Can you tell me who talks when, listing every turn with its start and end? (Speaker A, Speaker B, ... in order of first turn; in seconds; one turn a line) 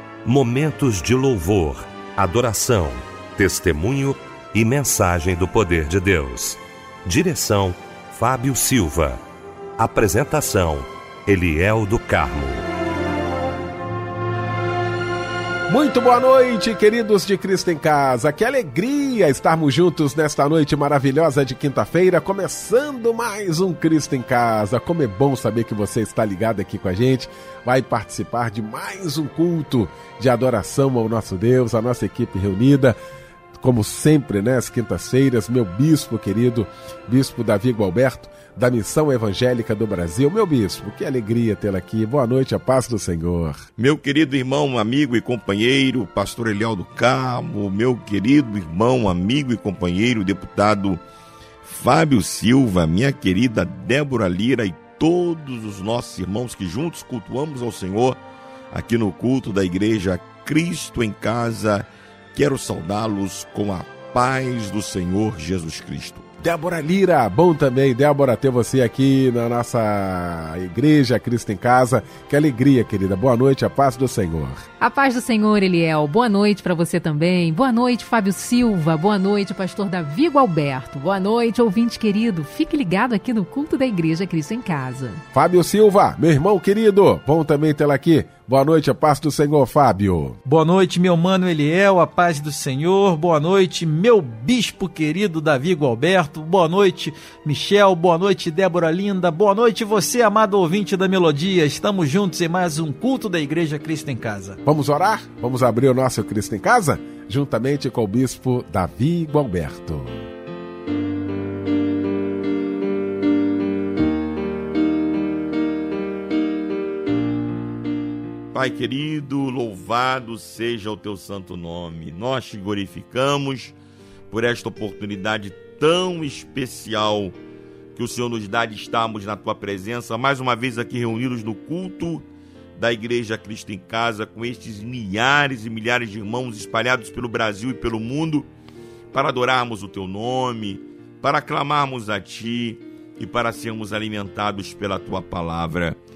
Speaker A: 0.2-9.2
Speaker A: 9.8-12.7
Speaker B: 15.7-33.0
Speaker B: 33.5-43.6
Speaker C: 43.8-51.0
Speaker C: 51.6-58.2
Speaker C: 58.7-66.3
Speaker B: 66.4-74.6
Speaker D: 74.8-85.2
Speaker B: 85.3-90.4
Speaker E: 90.4-104.6
Speaker B: 104.6-110.3
Speaker C: 118.5-123.8
Speaker C: 124.3-127.3
Speaker C: 127.9-138.5
Speaker C: 139.1-146.0